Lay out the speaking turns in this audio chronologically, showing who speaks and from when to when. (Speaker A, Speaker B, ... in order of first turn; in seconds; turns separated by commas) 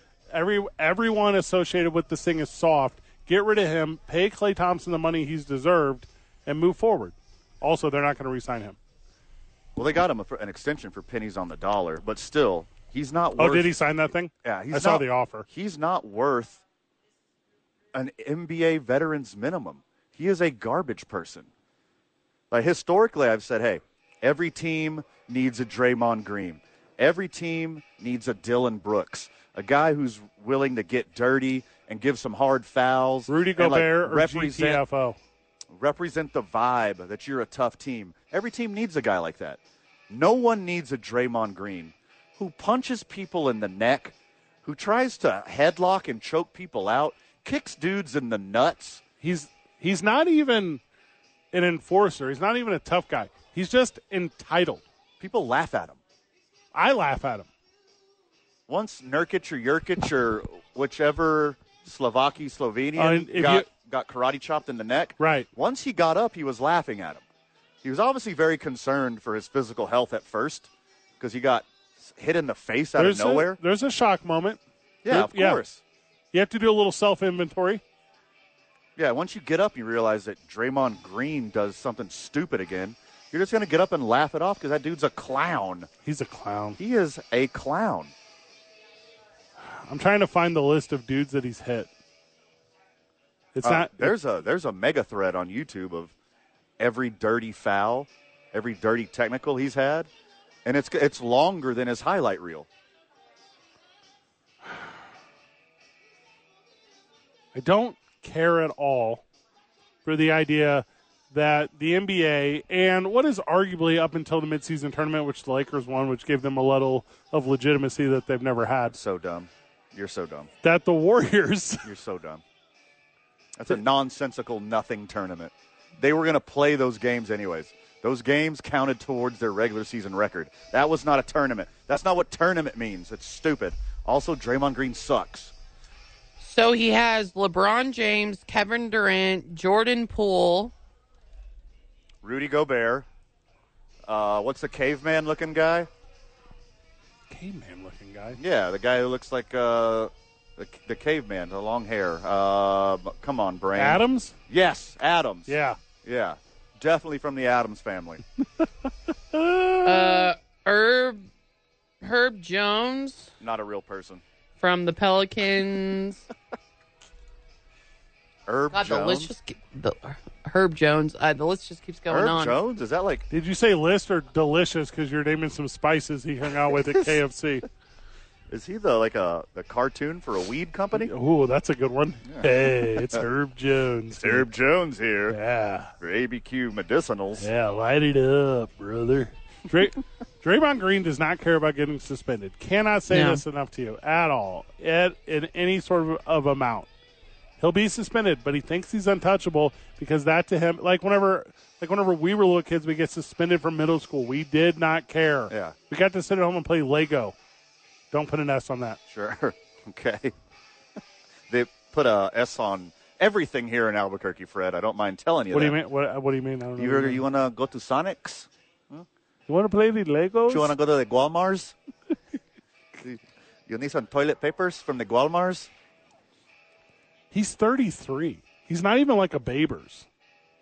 Speaker A: 0.3-8.8, Speaker B: 9.8-13.7, Speaker A: 13.4-15.5, Speaker B: 14.4-16.6, Speaker B: 17.9-21.5, Speaker B: 22.5-34.8, Speaker A: 33.3-35.2, Speaker B: 35.7-39.6, Speaker B: 40.1-49.0, Speaker A: 49.2-50.8, Speaker A: 51.5-54.8, Speaker B: 55.2-56.0, Speaker A: 56.7-57.5, Speaker B: 58.7-67.2, Speaker A: 63.0-63.7, Speaker A: 65.2-65.5, Speaker B: 67.8-73.6, Speaker A: 73.0-75.6, Speaker B: 75.0-75.8, Speaker A: 76.3-77.8, Speaker B: 79.0-85.9, Speaker A: 86.0-86.8, Speaker B: 86.8-88.1, Speaker A: 89.7-91.9, Speaker A: 93.5-94.1, Speaker B: 93.6-96.1, Speaker B: 96.8-100.1, Speaker B: 100.7-102.7, Speaker A: 107.5-109.2, Speaker A: 110.0-119.0, Speaker B: 118.9-120.5, Speaker A: 120.6-121.9, Speaker B: 121.8-122.4, Speaker B: 123.6-135.5, Speaker C: 136.4-140.7, Speaker B: 142.2-143.1, Speaker B: 144.1-145.9, Speaker A: 147.3-148.4, Speaker B: 148.4-158.2, Speaker A: 153.8-154.3, Speaker A: 155.5-155.8, Speaker A: 159.3-160.3, Speaker C: 159.8-161.2, Speaker C: 162.0-163.3, Speaker B: 163.4-164.2, Speaker C: 164.6-166.2, Speaker B: 168.5-169.3, Speaker C: 168.7-172.6, Speaker B: 172.1-173.3, Speaker A: 173.3-177.7, Speaker B: 176.7-177.2, Speaker B: 178.5-181.1, Speaker A: 180.9-184.5, Speaker B: 182.3-183.3, Speaker B: 184.2-185.4, Speaker A: 185.3-185.9, Speaker B: 186.0-187.5, Speaker A: 187.4-196.9, Speaker C: 193.1-193.4, Speaker A: 197.6-207.3, Speaker B: 205.5-205.8, Speaker A: 208.1-209.0, Speaker B: 209.1-210.3, Speaker B: 211.5-215.8, Speaker A: 215.5-217.2, Speaker B: 216.8-219.1, Speaker A: 219.5-220.7, Speaker B: 220.5-221.8, Speaker B: 223.0-225.7, Speaker A: 227.3-230.1